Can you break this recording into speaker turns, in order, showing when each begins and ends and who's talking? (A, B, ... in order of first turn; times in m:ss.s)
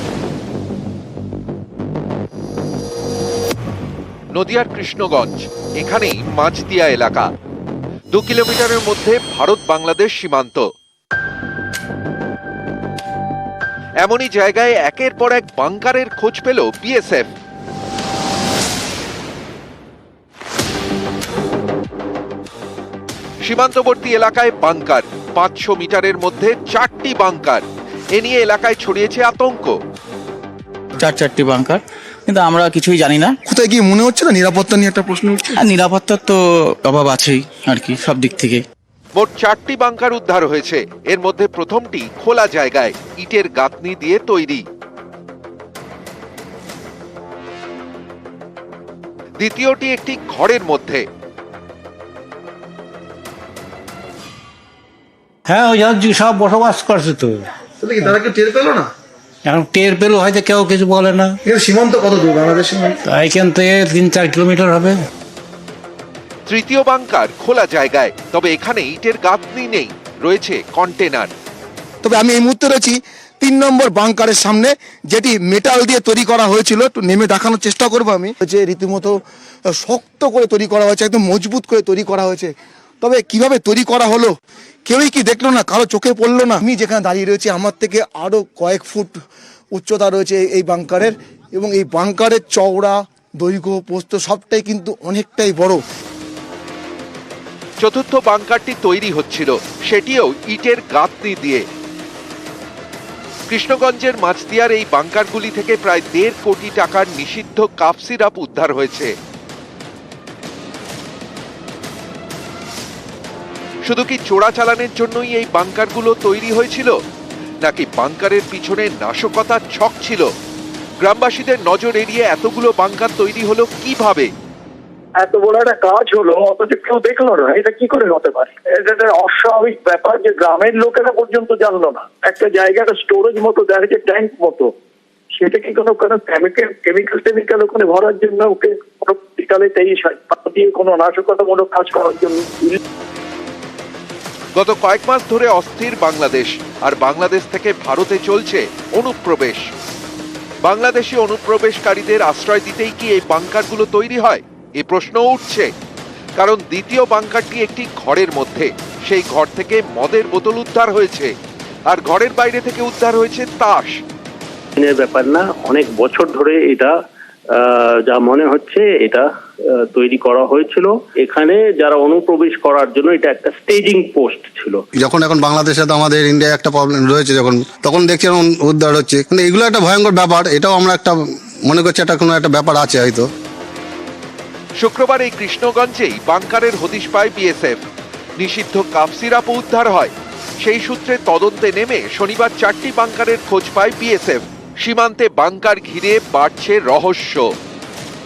0:04.3-0:07.3 A
0:08.1-0:10.7 A
0:14.0-0:17.3 A
0:23.4-0:29.8 A
0:31.0-0:33.4 B
0:33.5-0:35.6 C
0:35.6-0:38.6 B
0:39.2-0:44.6 A
0:49.4-0:51.0 A
0:55.5-0:57.5 D
0:58.4-0:58.7 C
0:59.5-1:01.4 D
1:03.0-1:05.1 D
1:06.5-1:11.3 A
1:12.0-1:19.2 C
1:19.7-1:24.4 C
1:24.9-1:29.2 C
1:29.7-1:35.8 C
1:37.8-1:41.6 A
1:43.5-1:49.1 A
1:53.8-1:57.0 A
1:57.6-2:00.3 A
2:01.0-2:04.3 A
2:05.2-2:14.7 E
2:15.3-2:22.8 E
2:24.6-2:29.6 A
2:30.6-2:35.7 A
2:36.4-2:41.3 A
2:41.9-2:44.0 A
2:44.8-2:46.9 F
2:47.5-2:49.2 F
2:49.9-2:54.8 F
2:55.0-3:03.3 G
3:04.8-3:07.8 A
3:08.4-3:17.5 A